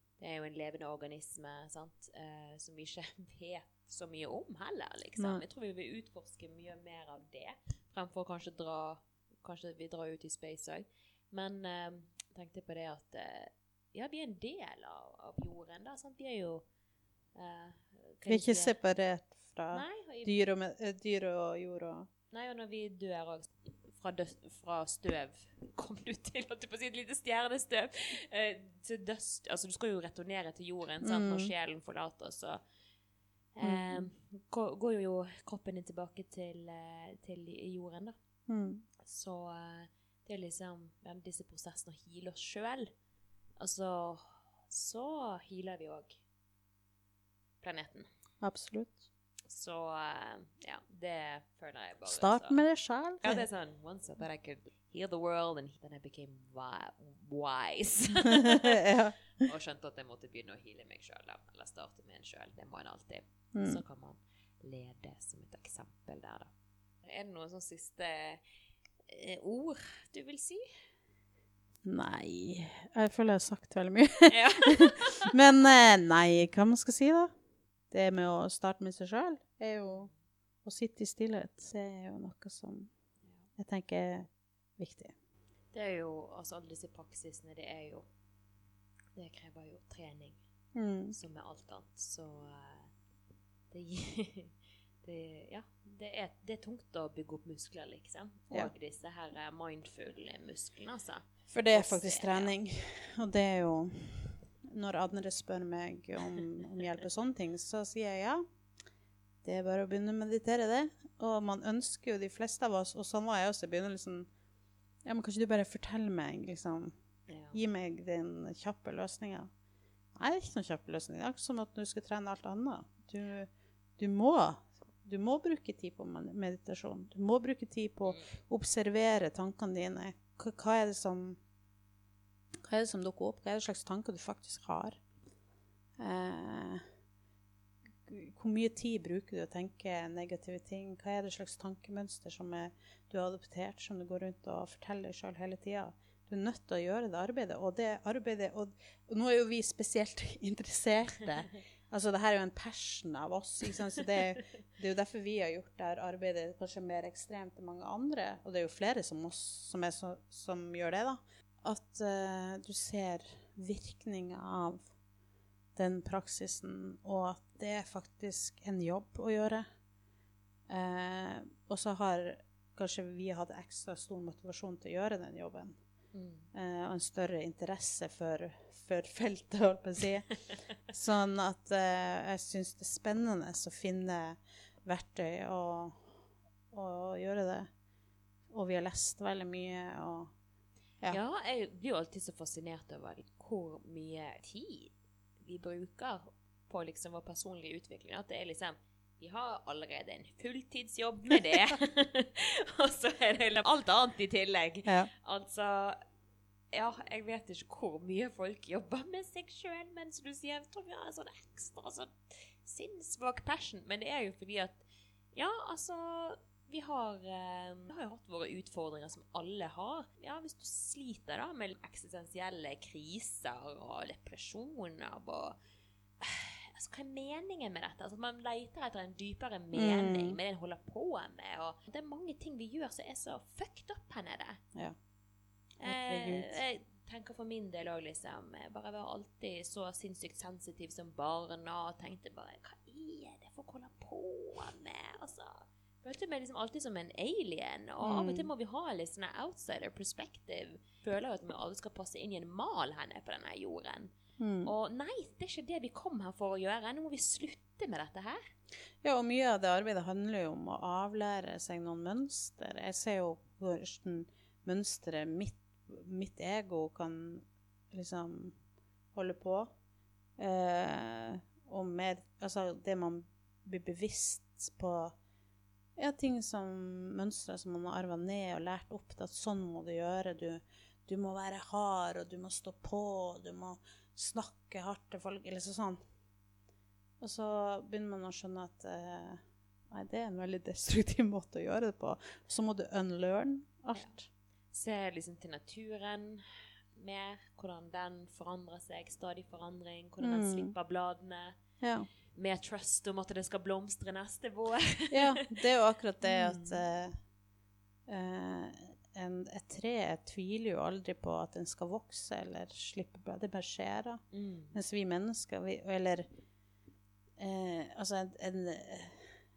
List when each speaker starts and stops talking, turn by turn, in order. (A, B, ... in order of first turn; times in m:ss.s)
0:00.2-0:16.6 A
0:05.2-0:05.4 B
0:17.4-0:18.8 A
0:18.3-0:22.1 B
0:19.7-0:20.4 A
0:22.3-0:32.6 A
0:31.0-0:31.5 B
0:33.6-0:38.2 A
0:33.6-0:34.1 B
0:38.5-0:38.8 B
0:39.0-0:42.9 A
0:43.6-0:46.2 A
0:47.6-0:48.1 A
0:48.4-0:49.0 B
0:49.5-0:52.6 A
0:52.1-0:53.4 B
0:53.2-0:58.9 A
0:58.3-0:59.2 B
0:59.4-1:06.5 A
1:03.5-1:03.8 B
1:07.0-1:08.4 A
1:09.1-1:10.6 A
1:11.8-1:17.3 B
1:14.3-1:15.4 A
1:17.9-1:20.1 B
1:20.6-1:22.9 B
1:23.6-1:25.1 B
1:25.7-1:28.1 A
1:29.2-1:30.4 A
1:30.7-1:31.2 B
1:31.1-1:32.9 A
1:33.7-1:42.5 A
1:41.5-1:48.4 B
1:49.4-1:54.3 B
1:55.0-1:57.0 B
1:57.3-1:57.6 A
1:57.5-1:59.5 B
2:00.2-2:11.4 B
2:08.0-2:08.3 A
2:12.7-2:15.0 B
2:16.0-2:16.8 B
2:18.1-2:44.9 B
2:45.8-2:49.6 B
2:50.7-2:55.8 B
2:56.1-2:56.4 A
2:56.5-3:00.3 B
3:00.9-3:06.1 B
3:06.7-3:07.7 B
3:08.5-3:10.3 B
3:11.1-3:14.9 A
3:15.4-3:26.0 A
3:26.7-3:34.8 A
3:35.4-3:45.6 A
3:46.2-3:54.6 A
3:49.7-3:50.4 B
3:55.8-4:18.4 A
3:55.8-3:56.6 B
4:08.0-4:08.5 B
4:14.4-4:14.7 B
4:19.0-4:28.6 B
4:29.1-4:29.7 B
4:30.4-4:35.1 B
4:36.0-4:46.0 B
4:47.2-4:54.3 B
4:54.7-5:01.6 A
5:00.2-5:00.7 B
5:01.8-5:02.1 B
5:02.3-5:05.5 A
5:05.1-5:07.2 B
5:06.2-5:06.8 A
5:08.1-5:16.3 B
5:14.3-5:14.8 A
5:17.4-5:19.3 B